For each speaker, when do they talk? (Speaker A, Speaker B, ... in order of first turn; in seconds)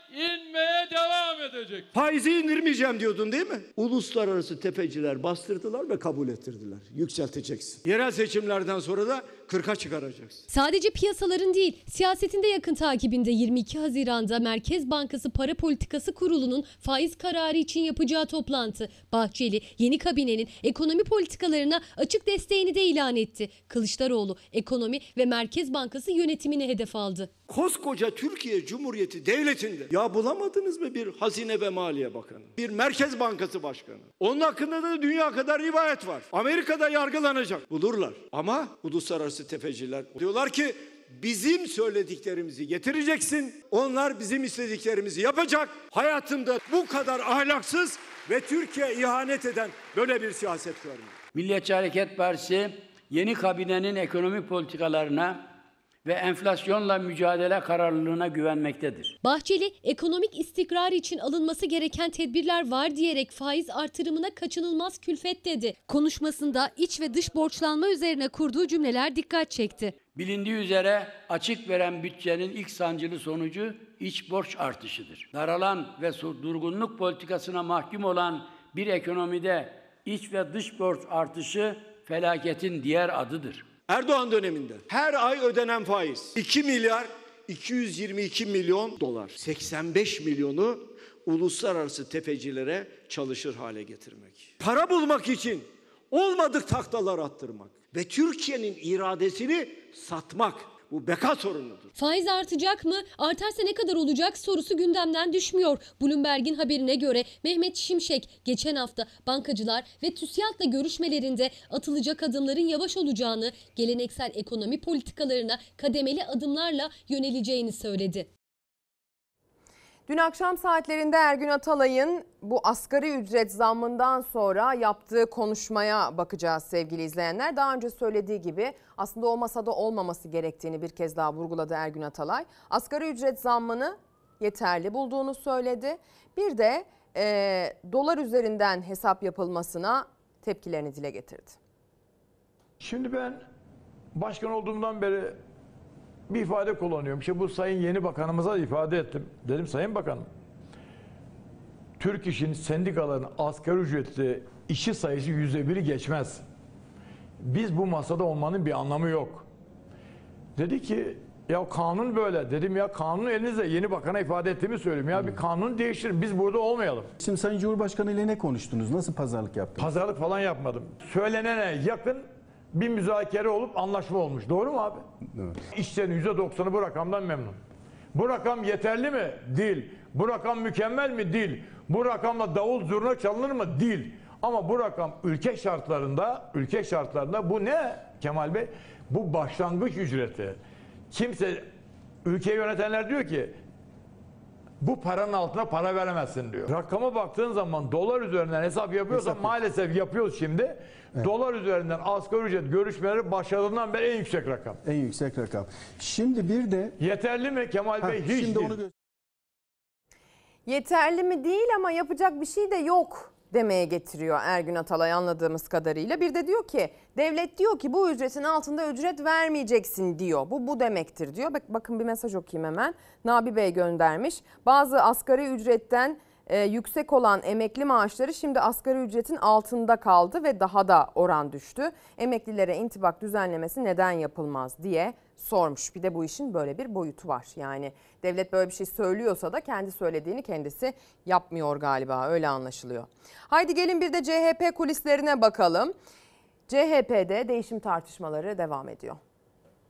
Speaker A: 1.9-10.4, 27.5-51.1, 83.9-101.9
Speaker B: 10.5-27.3, 59.2-69.9, 101.9-118.3
Speaker C: 51.3-55.4, 56.0-59.1, 70.1-83.7
Speaker D: 120.1-141.6, 210.7-245.9, 246.7-249.2
Speaker E: 142.8-143.4, 144.1-145.4, 146.3-150.3, 152.0-156.4, 157.4-159.4, 160.6-167.1, 169.8-175.1, 175.7-177.6, 178.1-190.6, 191.1-191.7, 192.2-193.6, 194.8-204.8, 207.0-208.8
Speaker F: 167.2-169.9, 204.8-206.9